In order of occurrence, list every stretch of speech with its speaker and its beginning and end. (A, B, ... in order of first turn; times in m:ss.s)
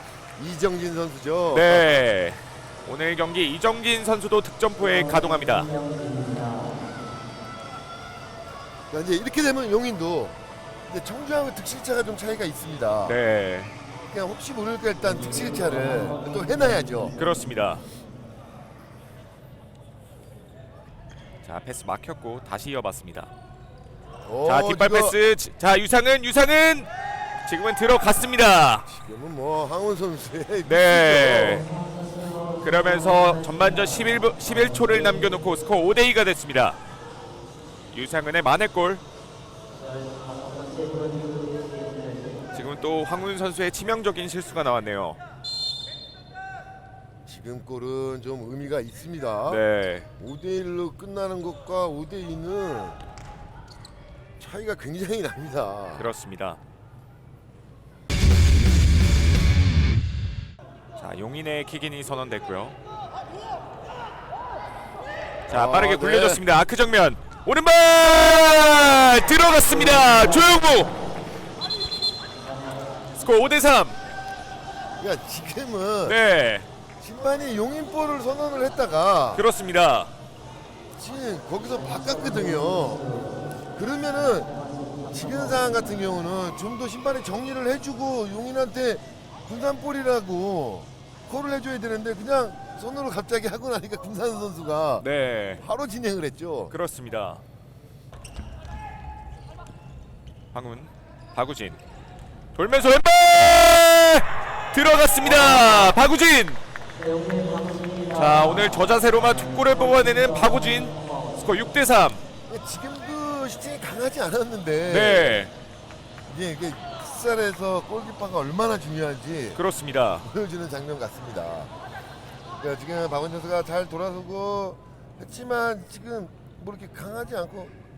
0:00.4-0:02.0 A
0:01.5-0:05.7 B
0:08.9-0:10.4 A
0:10.9-0:13.2 A
0:13.0-0:13.7 B
0:14.1-0:17.2 A
0:17.2-0:17.8 B
0:21.4-0:23.3 B
0:24.2-0:25.2 A
0:24.4-0:26.9 B
0:27.4-0:28.9 B
0:28.9-0:31.7 A
0:30.6-0:31.7 B
0:32.6-0:36.8 B
0:37.9-0:39.0 B
0:42.5-0:45.2 B
0:47.3-0:49.6 A
0:49.5-0:50.1 B
0:50.2-0:53.0 A
0:54.4-0:56.1 A
0:56.0-0:56.6 B
1:01.0-1:02.8 B
1:05.5-1:06.4 A
1:05.5-1:11.0 B
1:13.1-1:14.0 B
1:15.0-1:16.2 A
1:16.0-1:16.7 B
1:17.0-1:19.4 A
1:19.3-1:20.1 B
1:21.0-1:23.1 A
1:23.8-1:24.5 A
1:25.1-1:36.7 A
1:35.0-1:35.6 B
1:36.7-1:37.4 B
1:40.5-1:41.8 B
1:42.6-1:46.6 B
1:48.1-1:52.2 B
1:52.5-1:55.5 A
1:54.9-1:55.5 B
1:56.3-1:59.6 A
1:59.6-2:00.3 B
2:00.2-2:01.7 A
2:02.6-2:07.7 A